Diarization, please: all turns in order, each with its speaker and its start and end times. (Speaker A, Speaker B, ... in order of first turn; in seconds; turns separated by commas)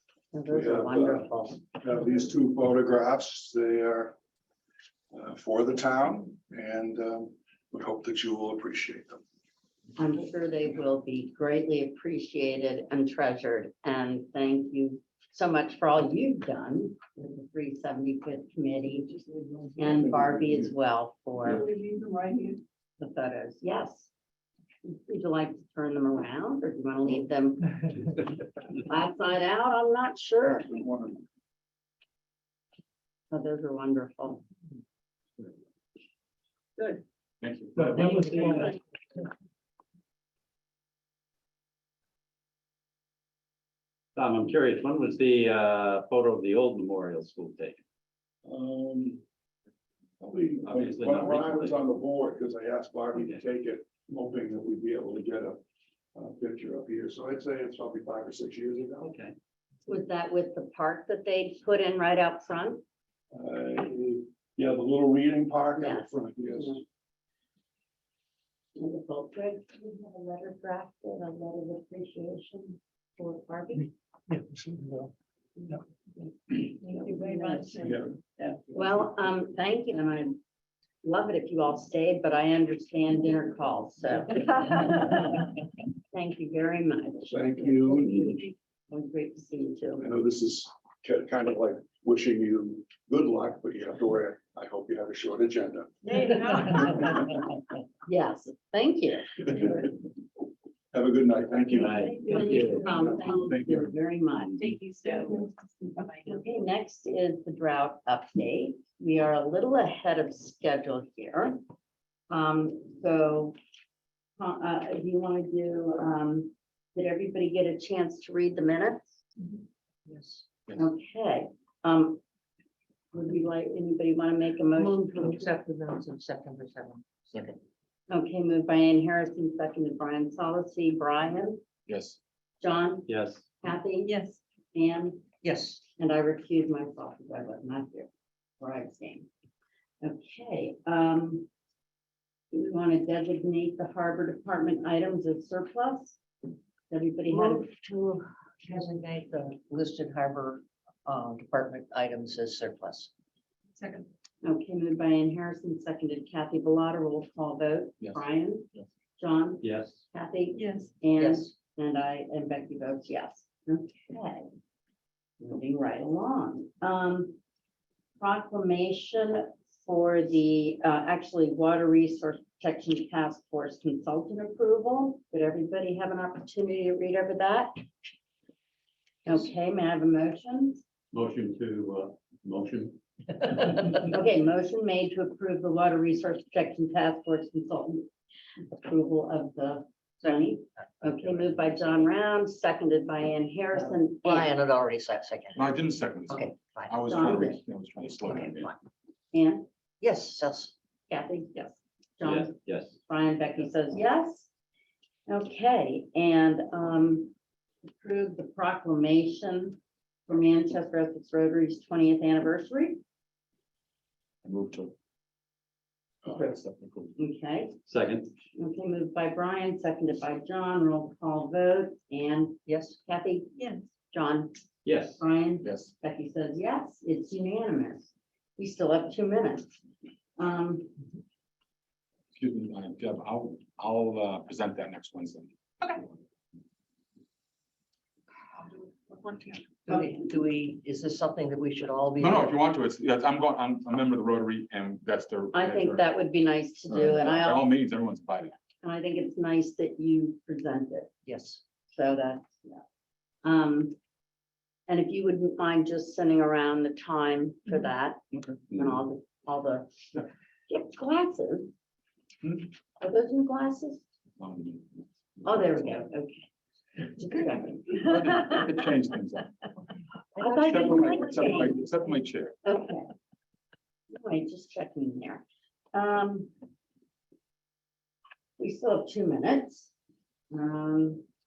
Speaker A: 0.3-1.6, Speaker B: 0.5-4.1, Speaker B: 5.1-9.2, Speaker A: 10.0-19.1, Speaker A: 19.8-21.6, Speaker B: 19.9-20.7, Speaker C: 21.5-22.6, Speaker A: 23.0-24.1, Speaker A: 24.8-27.7, Speaker A: 28.9-31.1, Speaker A: 33.3-34.4, Speaker A: 36.8-37.0, Speaker D: 37.4-38.2, Speaker A: 38.0-38.7, Speaker E: 44.1-47.8, Speaker B: 48.4-49.2, Speaker B: 50.2-55.6, Speaker E: 50.6-51.8, Speaker B: 56.1-59.1, Speaker E: 59.0-59.3, Speaker A: 59.9-62.8, Speaker B: 63.3-66.8, Speaker A: 65.7-66.8, Speaker A: 68.8-73.9, Speaker A: 75.6-80.4, Speaker C: 76.8-78.0, Speaker A: 81.0-85.5, Speaker A: 86.1-88.3, Speaker B: 87.3-88.4, Speaker A: 88.9-90.0, Speaker B: 90.0-95.9, Speaker C: 96.0-97.1, Speaker A: 98.0-100.0, Speaker B: 100.9-103.9, Speaker E: 101.7-102.9, Speaker C: 101.9-102.8, Speaker A: 102.2-104.6, Speaker C: 104.6-106.4, Speaker A: 106.2-111.6, Speaker A: 112.3-113.6, Speaker A: 114.4-119.2, Speaker A: 120.7-122.2, Speaker A: 123.1-125.5, Speaker F: 124.8-127.0, Speaker D: 127.3-127.6, Speaker A: 128.1-131.6, Speaker D: 131.9-132.2, Speaker A: 132.6-134.2, Speaker E: 133.1-133.4, Speaker C: 134.0-134.4, Speaker A: 134.7-135.2, Speaker F: 135.4-135.8, Speaker A: 136.0-138.1, Speaker A: 138.6-139.3, Speaker A: 140.0-141.5, Speaker A: 142.5-146.2, Speaker A: 146.9-147.7, Speaker B: 147.3-148.1, Speaker F: 147.4-153.1, Speaker C: 153.8-154.1, Speaker A: 154.4-164.4, Speaker E: 159.6-160.0, Speaker C: 160.6-160.9, Speaker F: 161.2-161.5, Speaker A: 165.4-167.4, Speaker A: 168.2-177.7, Speaker A: 179.2-180.8, Speaker E: 181.1-183.8, Speaker A: 183.9-188.1, Speaker A: 188.8-194.5, Speaker F: 194.2-195.7, Speaker D: 195.6-198.7, Speaker F: 196.3-196.9, Speaker A: 197.0-197.6, Speaker A: 199.3-199.7, Speaker F: 200.0-200.7, Speaker A: 201.1-202.5, Speaker E: 202.2-202.9, Speaker A: 203.1-204.5, Speaker A: 205.3-207.3, Speaker A: 208.0-213.0, Speaker D: 214.4-214.9, Speaker D: 216.2-217.1, Speaker A: 217.2-217.8, Speaker E: 217.9-218.3, Speaker A: 218.5-223.5, Speaker F: 222.7-222.9, Speaker C: 223.6-223.8, Speaker A: 224.1-224.6, Speaker E: 224.8-225.2, Speaker A: 225.1-229.7, Speaker D: 225.6-225.9, Speaker A: 230.4-230.9, Speaker D: 232.3-235.5, Speaker C: 239.1-239.6, Speaker A: 239.9-240.2, Speaker F: 239.9-242.5, Speaker D: 242.2-246.0, Speaker A: 245.5-247.7, Speaker D: 246.9-248.5, Speaker A: 248.8-251.1, Speaker F: 251.2-251.6, Speaker A: 251.9-252.8, Speaker A: 253.4-253.9, Speaker A: 254.9-260.0, Speaker A: 260.7-261.7, Speaker A: 263.0-264.0, Speaker D: 264.4-266.0, Speaker A: 265.4-266.5, Speaker A: 267.1-268.6, Speaker D: 268.1-269.5, Speaker A: 270.4-271.8, Speaker D: 270.5-272.6, Speaker A: 272.6-273.1, Speaker A: 274.1-276.5, Speaker A: 278.6-279.9, Speaker A: 280.5-281.2